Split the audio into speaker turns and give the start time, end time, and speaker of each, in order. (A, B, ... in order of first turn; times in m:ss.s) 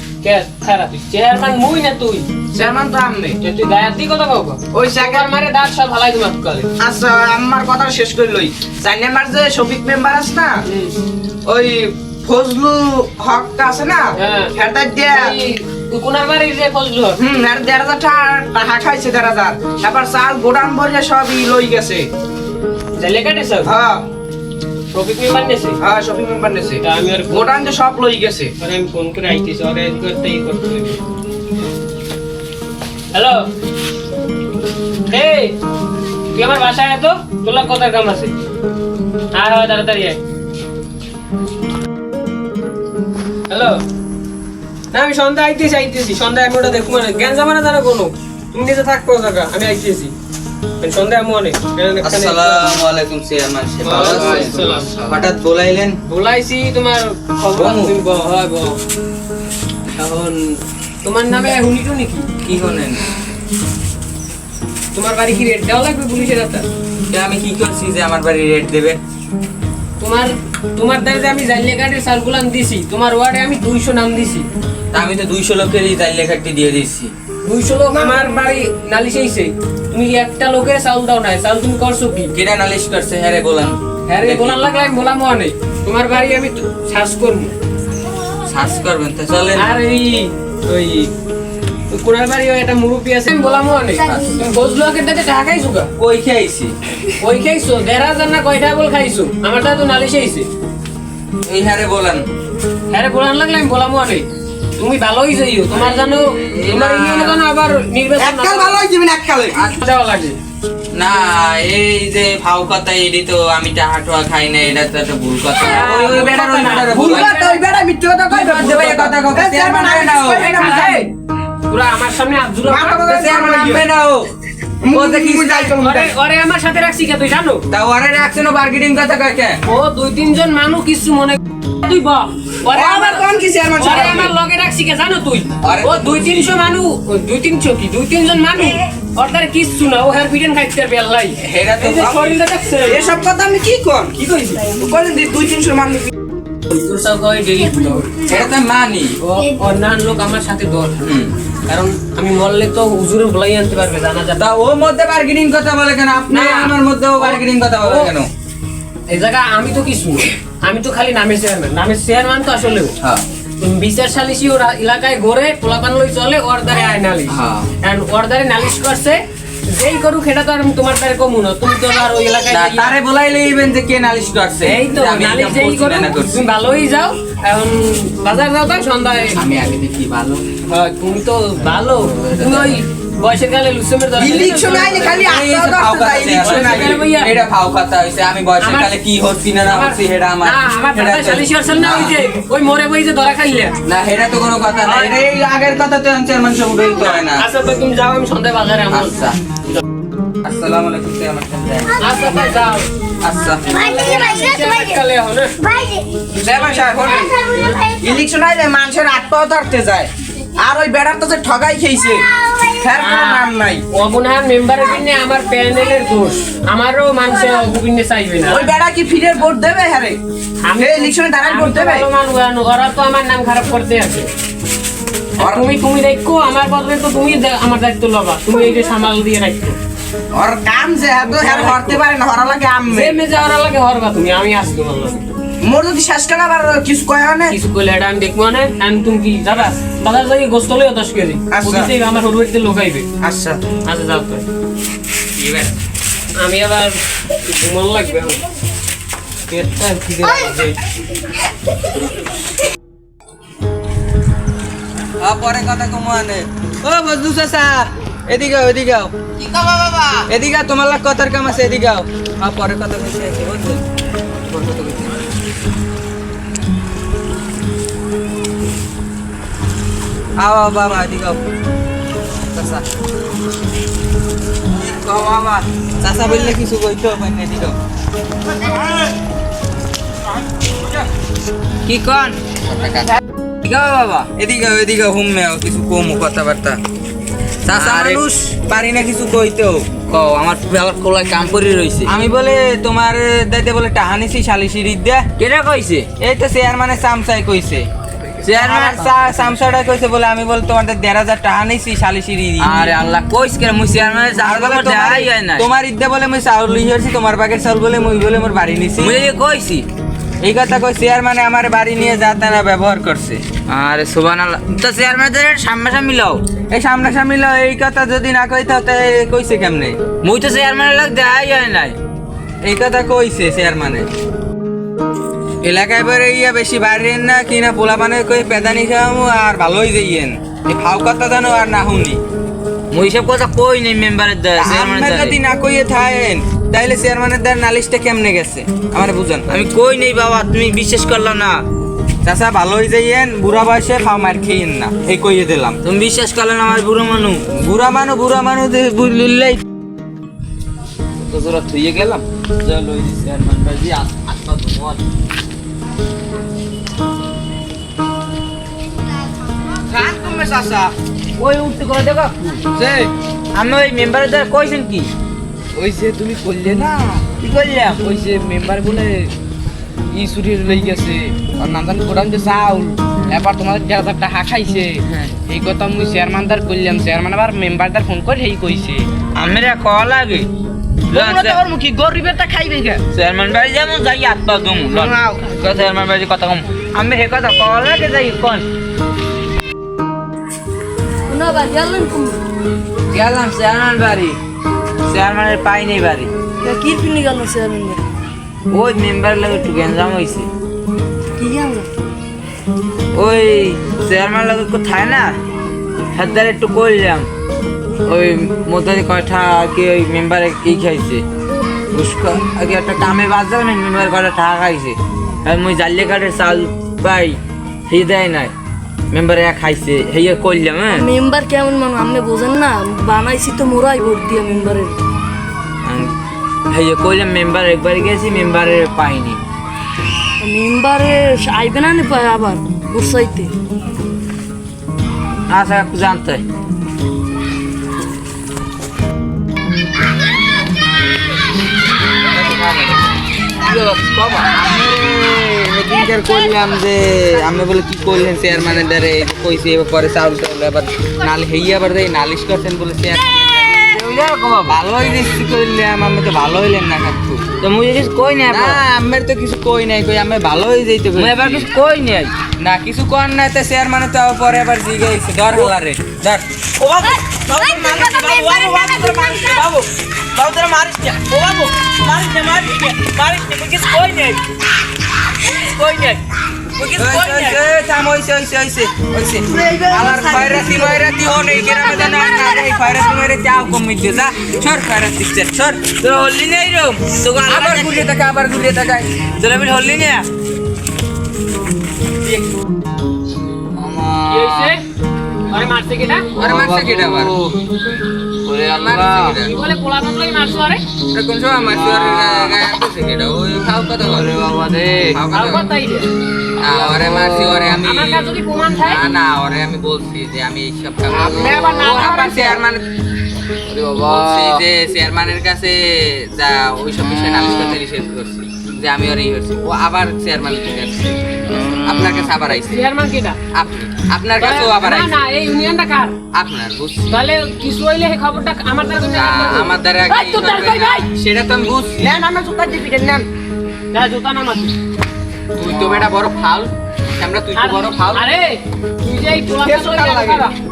0:00.2-0:02.3 A
0:02.5-0:03.4 B
0:03.4-0:06.7 A
0:04.7-0:05.3 B
0:06.8-0:10.6 B
0:10.6-0:11.0 A
0:11.5-0:14.0 B
0:14.2-0:14.5 A
0:14.5-0:15.3 B
0:15.1-0:17.2 A
0:17.2-0:22.0 B
0:23.0-0:23.7 A
0:23.7-0:24.0 B
0:24.9-0:25.8 A
0:25.8-0:28.5 B
0:26.8-0:27.6 A
0:28.6-0:31.0 A
0:33.1-0:33.5 A
0:35.1-0:35.6 A
0:36.3-0:38.3 A
0:39.3-0:40.2 A
0:43.5-0:43.8 A
0:44.9-0:50.1 A
0:50.8-0:52.7 A
0:52.0-0:56.0 C
0:53.8-0:55.1 A
0:56.1-0:58.8 A
0:57.6-0:57.9 C
0:59.9-1:02.3 A
1:02.4-1:03.0 C
1:04.9-1:06.7 A
1:07.1-1:09.0 C
1:10.0-1:14.4 A
1:14.9-1:17.1 C
1:17.4-1:22.3 A
1:22.3-1:24.6 C
1:24.1-1:27.6 A
1:28.4-1:29.7 C
1:29.6-1:31.1 A
1:31.9-1:35.9 A
1:34.0-1:34.3 C
1:36.0-1:36.7 C
1:37.2-1:40.5 A
1:41.4-1:42.2 C
1:42.9-1:44.3 A
1:44.8-1:48.8 A
1:45.7-1:47.4 C
1:48.2-1:49.6 B
1:49.7-1:50.4 A
1:50.9-1:57.3 C
1:55.6-1:57.6 A
1:56.9-2:01.1 B
1:58.3-2:00.5 C
2:00.2-2:01.1 A
2:01.7-2:03.2 A
2:02.7-2:03.8 B
2:03.1-2:04.3 C
2:04.8-2:06.1 B
2:04.9-2:05.7 C
2:05.8-2:07.6 A
2:07.7-2:09.6 C
2:09.7-2:23.0 A
2:12.7-2:14.3 B
2:15.6-2:16.6 C
2:21.4-2:22.4 C
2:22.8-2:26.1 B
2:24.2-2:24.6 C
2:26.7-2:28.1 A
2:28.2-2:29.1 C
2:29.2-2:30.9 A
2:31.0-2:31.3 C
2:31.7-2:34.4 A
2:34.4-2:38.3 C
2:36.3-2:38.1 A
2:39.1-2:42.9 A
2:43.6-2:53.0 A
2:47.3-2:47.7 C
2:52.5-2:56.4 C
2:54.6-2:59.4 A
2:59.3-3:00.4 C
3:00.7-3:05.3 A
3:02.0-3:02.8 C
3:04.2-3:07.0 B
3:04.7-3:12.1 C
3:06.4-3:07.3 A
3:08.6-3:09.0 A
3:09.6-3:13.8 A
3:13.8-3:17.4 C
3:14.8-3:15.2 A
3:16.9-3:19.2 A
3:18.9-3:19.4 C
3:20.4-3:22.3 C
3:22.0-3:22.9 A
3:23.2-3:23.6 C
3:23.7-3:25.5 A
3:26.3-3:32.2 B
3:27.4-3:27.8 A
3:32.8-3:33.8 B
3:33.0-3:38.6 A
3:38.5-3:40.2 B
3:40.6-3:44.3 A
3:40.8-3:42.0 B
3:45.4-3:49.8 A
3:50.3-3:53.2 B
3:51.2-3:52.0 A
3:52.9-3:55.2 A
3:55.6-3:57.5 B
3:57.5-4:03.1 A
4:01.5-4:01.9 B
4:03.2-4:03.6 B
4:03.8-4:04.4 A
4:05.4-4:05.7 C
4:06.4-4:08.4 A
4:09.5-4:10.7 A
4:15.2-4:19.1 C
4:19.4-4:20.2 D
4:20.3-4:23.8 C
4:24.5-4:25.1 C
4:30.4-4:31.4 C
4:32.5-4:32.8 C
4:34.8-4:37.8 C
4:41.9-4:42.4 D
4:42.6-4:43.1 C
4:43.6-4:44.3 D
4:44.3-4:46.8 C
4:47.7-4:48.3 D
4:47.7-4:49.9 C
4:50.1-4:52.1 D
4:52.1-4:55.3 C
4:55.4-4:56.1 D
4:56.2-4:57.9 C
4:58.4-5:02.9 C
4:58.6-4:59.0 D
5:02.6-5:05.6 D
5:04.4-5:09.2 C
5:09.0-5:09.9 D
5:10.4-5:13.4 C
5:13.7-5:16.4 D
5:16.7-5:20.0 C
5:20.2-5:22.0 D
5:22.6-5:24.1 C
5:25.6-5:32.2 C
5:32.9-5:35.4 D
5:34.6-5:39.6 C
5:39.5-5:41.6 D
5:42.2-5:45.8 C
5:45.8-5:47.4 D
5:47.5-5:49.6 C
5:51.2-5:55.0 D
5:59.9-6:00.9 B
6:01.4-6:02.6 D
6:02.8-6:03.1 B
6:03.5-6:05.1 D
6:05.8-6:07.3 E
6:07.4-6:08.0 D
6:08.0-6:09.3 E
6:10.1-6:19.0 E
6:19.4-6:20.5 D
6:21.1-6:21.6 D
6:21.1-6:23.0 B
6:23.1-6:28.7 D
6:24.9-6:25.5 B
6:31.3-6:32.4 F
6:33.1-6:34.4 D
6:35.1-6:36.3 D
6:36.6-6:38.0 F
6:38.7-6:40.5 D
6:41.4-6:41.9 F
6:43.1-6:45.4 D
6:46.1-6:47.3 D
6:48.1-6:51.2 D
6:51.9-6:58.5 D
6:59.1-7:01.1 D
7:00.9-7:05.0 F
7:05.8-7:06.1 D
7:06.7-7:09.4 D
7:10.4-7:13.5 F
7:15.5-7:16.4 D
7:22.3-7:23.0 C
7:23.8-7:24.5 D
7:24.4-7:33.9 C
7:33.9-7:34.8 D
7:34.7-7:37.5 C
7:37.6-7:38.8 D
7:38.5-7:41.7 C
7:41.2-7:42.3 D
7:42.6-7:49.8 C
7:47.6-7:49.3 F
7:50.4-7:54.4 D
7:50.4-7:51.2 C
7:55.6-7:56.2 D
7:56.8-7:57.6 D
7:57.0-8:05.9 C
7:59.6-8:00.0 F
8:00.1-8:00.5 D
8:05.9-8:08.1 D
8:07.4-8:09.2 C
8:09.4-8:10.3 D
8:13.8-8:14.7 D
8:14.3-8:14.8 A
8:15.5-8:16.3 A
8:16.4-8:17.3 C
8:16.4-8:17.5 D
8:18.4-8:19.4 D
8:18.7-8:19.5 C
8:19.4-8:20.8 A
8:21.1-8:24.3 C
8:21.6-8:22.6 D
8:24.0-8:25.2 D
8:25.1-8:25.7 C
8:25.3-8:26.1 A
8:26.6-8:32.8 C
8:26.6-8:27.7 D
8:27.7-8:29.0 A
8:31.1-8:32.1 B
8:31.2-8:32.6 A
8:33.7-8:34.6 D
8:34.1-8:42.8 C
8:37.1-8:37.8 D
8:41.5-8:42.2 D
8:42.6-8:43.4 A
8:43.5-8:45.1 C
8:44.4-8:46.2 A
8:46.3-8:47.0 C
8:47.1-8:51.1 A
8:49.0-8:52.1 C
8:52.0-8:53.3 B
8:53.9-8:54.8 A
8:55.6-8:58.3 C
8:57.5-9:00.5 A
8:59.6-9:00.5 B